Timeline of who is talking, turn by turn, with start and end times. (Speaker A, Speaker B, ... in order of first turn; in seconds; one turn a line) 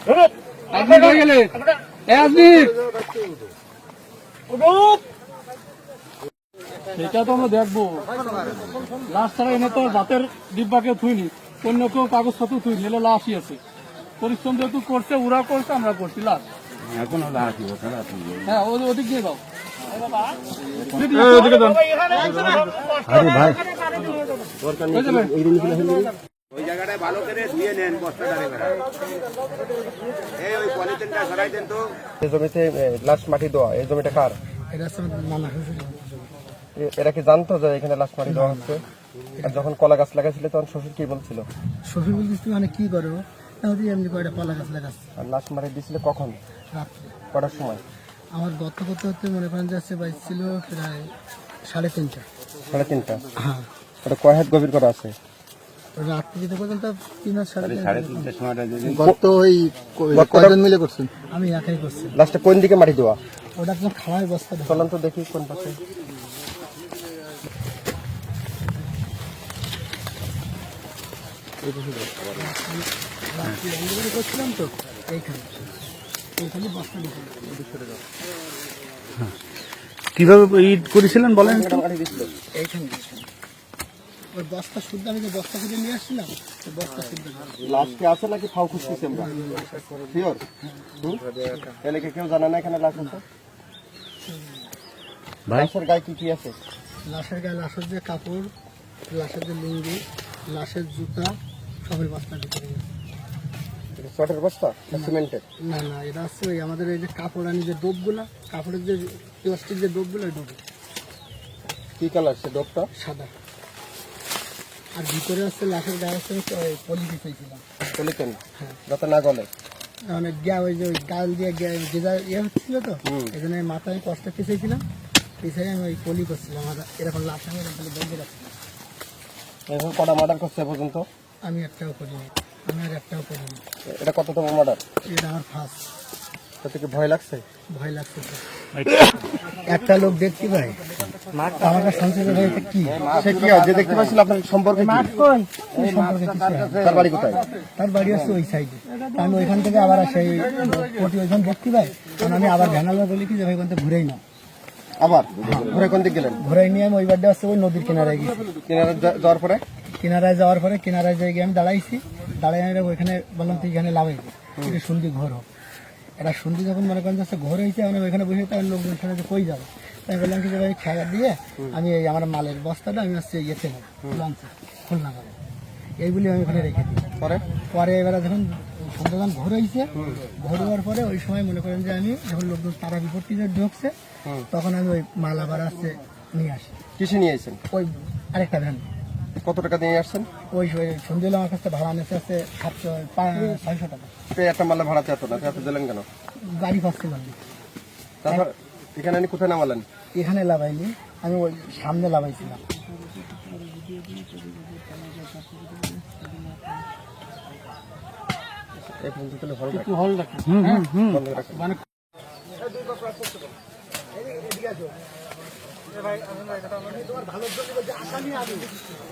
Speaker A: 0.7-2.8
Speaker A: 4.7-5.0
Speaker A: 6.9-8.2
Speaker A: 9.1-13.6
Speaker A: 14.2-16.4
Speaker B: 17.0-18.0
Speaker C: 17.4-18.1
Speaker A: 18.4-19.4
Speaker A: 20.8-22.6
Speaker B: 23.1-23.6
Speaker C: 24.5-26.1
Speaker A: 24.9-25.3
Speaker D: 26.7-28.6
Speaker C: 26.7-28.8
Speaker D: 30.5-31.8
Speaker C: 30.6-34.4
Speaker E: 34.7-36.3
Speaker C: 36.7-38.8
Speaker E: 38.3-38.8
Speaker E: 39.4-39.7
Speaker C: 39.4-41.5
Speaker E: 41.9-45.0
Speaker C: 45.2-46.4
Speaker E: 46.7-47.2
Speaker C: 47.3-47.8
Speaker E: 48.3-51.1
Speaker E: 51.7-52.3
Speaker C: 52.7-53.3
Speaker E: 53.4-53.7
Speaker C: 54.0-55.2
Speaker E: 56.0-62.2
Speaker B: 58.0-59.0
Speaker C: 58.4-59.2
Speaker C: 60.1-60.6
Speaker C: 62.1-63.2
Speaker E: 63.5-64.9
Speaker C: 64.7-65.8
Speaker C: 71.7-72.0
Speaker E: 72.3-75.6
Speaker E: 76.4-77.5
Speaker C: 77.4-78.0
Speaker B: 80.1-81.8
Speaker C: 81.4-82.3
Speaker E: 82.5-83.3
Speaker E: 84.3-87.7
Speaker C: 87.6-89.4
Speaker E: 89.1-90.1
Speaker C: 90.1-90.4
Speaker E: 91.4-91.7
Speaker C: 91.8-93.2
Speaker E: 94.3-94.6
Speaker C: 95.5-96.6
Speaker E: 97.0-98.5
Speaker E: 99.1-102.9
Speaker C: 103.9-105.4
Speaker E: 104.9-110.6
Speaker C: 112.0-112.9
Speaker E: 112.9-113.3
Speaker E: 114.9-117.6
Speaker C: 117.9-119.5
Speaker E: 120.1-124.8
Speaker C: 123.1-123.3
Speaker E: 125.4-128.5
Speaker C: 129.7-131.1
Speaker E: 131.4-133.6
Speaker C: 133.8-134.8
Speaker E: 135.0-135.8
Speaker C: 136.6-137.5
Speaker E: 137.7-138.4
Speaker B: 138.8-139.0
Speaker E: 139.5-140.9
Speaker E: 141.5-143.1
Speaker C: 143.1-145.1
Speaker E: 144.8-146.9
Speaker C: 146.7-147.4
Speaker E: 147.8-154.2
Speaker A: 149.1-150.9
Speaker C: 155.0-156.4
Speaker E: 155.4-155.8
Speaker E: 156.3-158.5
Speaker C: 158.6-159.6
Speaker E: 159.9-165.5
Speaker E: 166.2-175.3
Speaker E: 176.0-177.1
Speaker C: 177.2-177.4
Speaker E: 177.7-183.9
Speaker C: 179.9-180.3
Speaker E: 184.5-186.8
Speaker C: 187.0-187.6
Speaker E: 187.7-188.8
Speaker C: 189.4-190.3
Speaker E: 190.5-194.1
Speaker C: 194.3-196.1
Speaker E: 196.4-197.4
Speaker C: 198.2-199.8
Speaker E: 200.1-202.7
Speaker C: 208.8-210.0
Speaker A: 209.8-210.9
Speaker B: 210.5-211.2
Speaker C: 211.0-211.7
Speaker E: 214.2-214.9
Speaker E: 216.0-218.8